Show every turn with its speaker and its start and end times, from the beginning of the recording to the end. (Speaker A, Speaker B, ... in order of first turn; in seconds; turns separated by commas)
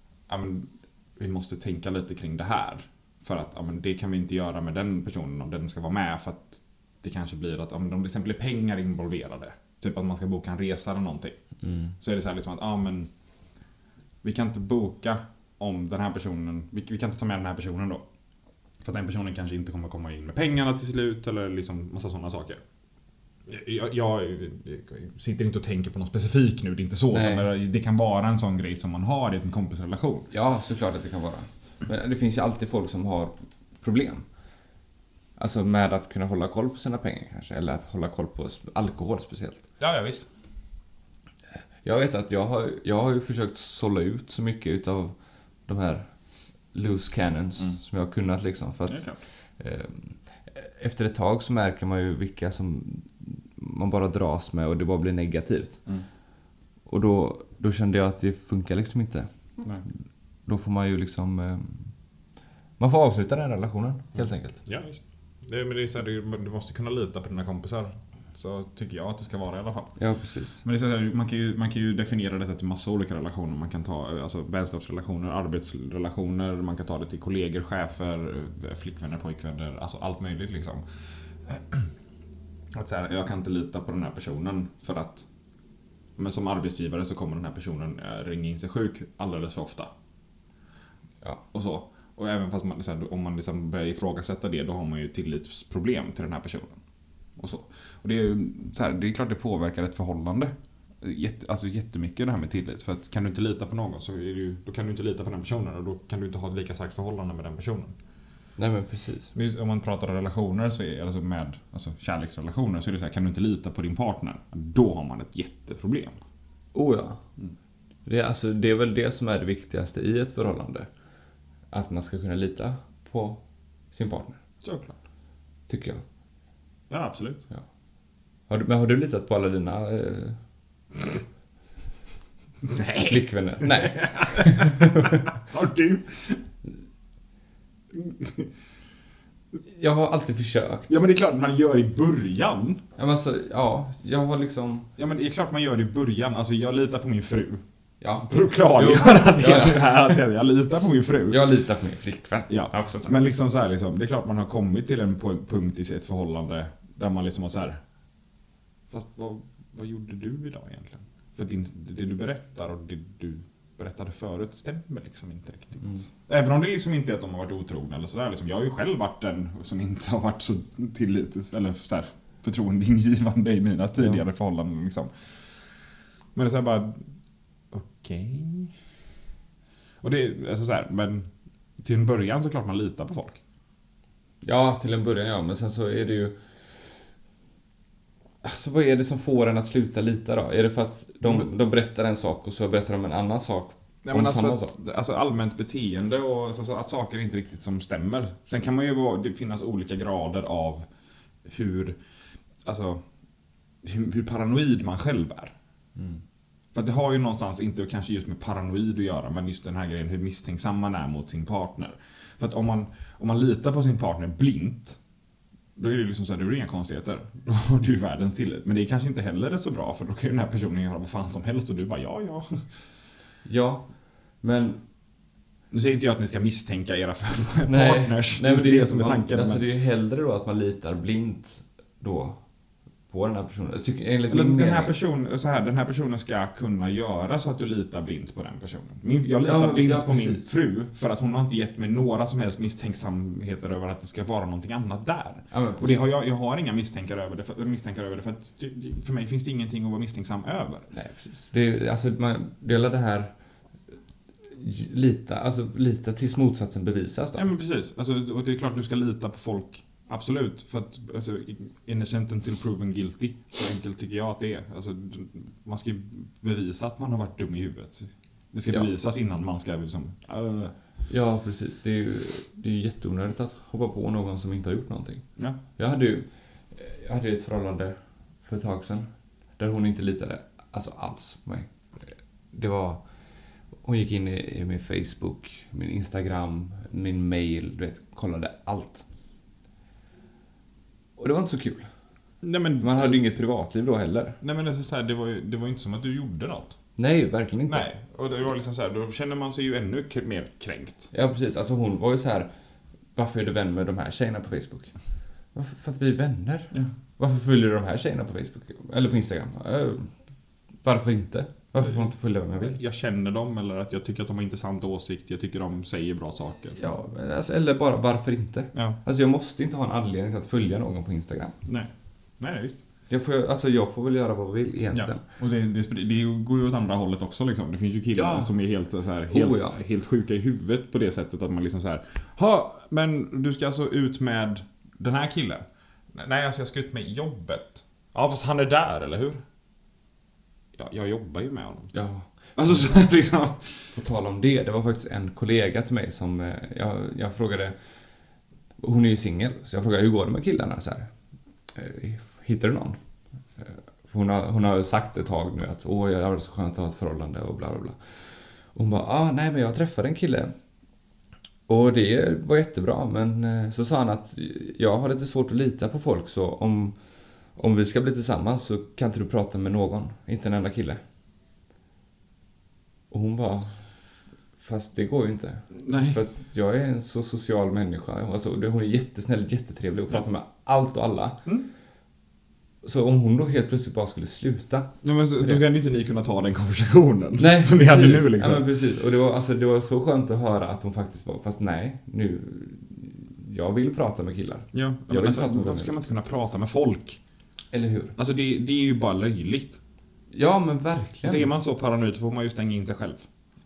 Speaker A: 0.3-11.4, Speaker B: 11.6-11.9, Speaker A: 12.0-13.1, Speaker A: 14.2-18.1, Speaker A: 18.8-22.6, Speaker A: 23.5-30.3, Speaker B: 27.1-27.5, Speaker B: 30.3-34.2, Speaker B: 35.4-39.6, Speaker A: 39.8-40.3, Speaker B: 41.8-45.1, Speaker B: 45.7-46.1, Speaker B: 46.7-49.1, Speaker A: 48.9-49.2, Speaker B: 49.6-55.8, Speaker B: 56.9-59.3, Speaker B: 60.5-61.9, Speaker B: 62.8-64.6, Speaker A: 64.2-70.0, Speaker B: 70.0-70.6, Speaker A: 70.6-80.8, Speaker A: 81.4-81.9, Speaker A: 82.7-85.3, Speaker A: 86.2-89.9, Speaker A: 91.5-96.8, Speaker A: 97.4-108.0, Speaker B: 108.6-109.3, Speaker A: 109.3-116.2, Speaker B: 116.7-117.2, Speaker B: 118.1-120.9, Speaker B: 121.7-123.4, Speaker B: 123.9-124.4, Speaker A: 124.6-125.0, Speaker B: 125.7-126.0, Speaker A: 126.9-127.4, Speaker B: 128.5-130.4, Speaker A: 132.7-136.4, Speaker B: 133.0-135.2, Speaker A: 137.9-138.5, Speaker B: 139.7-140.9, Speaker A: 140.9-142.8, Speaker B: 143.0-144.9, Speaker A: 145.0-147.6, Speaker B: 148.0-150.2, Speaker A: 148.3-151.4, Speaker B: 151.3-153.2, Speaker A: 152.5-157.8, Speaker A: 158.9-175.1, Speaker B: 165.8-166.1, Speaker B: 174.0-174.2, Speaker A: 176.3-177.0, Speaker A: 177.7-178.7, Speaker A: 180.0-183.4, Speaker B: 184.4-186.4, Speaker B: 188.4-194.7, Speaker A: 194.0-200.9, Speaker A: 201.4-202.0, Speaker A: 202.6-203.0, Speaker A: 203.8-205.6, Speaker A: 206.7-215.0, Speaker A: 215.8-222.7, Speaker B: 223.4-224.8, Speaker A: 225.7-229.7, Speaker B: 227.7-232.4, Speaker B: 233.1-234.9, Speaker A: 234.3-250.9, Speaker B: 239.4-240.5, Speaker B: 245.5-246.1, Speaker B: 250.9-253.3, Speaker B: 254.5-257.5, Speaker A: 257.4-270.7, Speaker B: 271.1-275.2, Speaker B: 275.8-283.0, Speaker B: 283.8-289.1, Speaker B: 291.2-291.9, Speaker A: 292.4-293.2, Speaker B: 292.8-294.4, Speaker A: 294.4-296.8, Speaker B: 297.0-297.9, Speaker A: 297.7-301.1, Speaker B: 301.1-302.5, Speaker B: 303.1-304.9, Speaker B: 305.5-310.1, Speaker B: 310.8-312.8, Speaker A: 311.9-316.8, Speaker B: 316.8-321.6, Speaker A: 321.7-322.8, Speaker B: 323.1-325.2, Speaker A: 324.9-339.4, Speaker B: 328.1-328.5, Speaker B: 329.3-329.8, Speaker A: 340.8-341.9, Speaker B: 341.9-342.9, Speaker A: 342.6-343.9, Speaker B: 343.9-347.8, Speaker B: 348.8-351.1, Speaker B: 351.7-353.0, Speaker B: 353.6-360.5, Speaker B: 361.7-367.0, Speaker B: 367.6-371.0, Speaker B: 373.1-373.8, Speaker B: 374.6-381.4, Speaker A: 375.8-376.2, Speaker B: 382.8-385.6, Speaker A: 385.0-388.7, Speaker B: 387.4-395.9, Speaker A: 394.7-397.2, Speaker B: 397.7-398.2, Speaker A: 398.2-399.8, Speaker B: 400.3-401.5, Speaker A: 401.2-403.3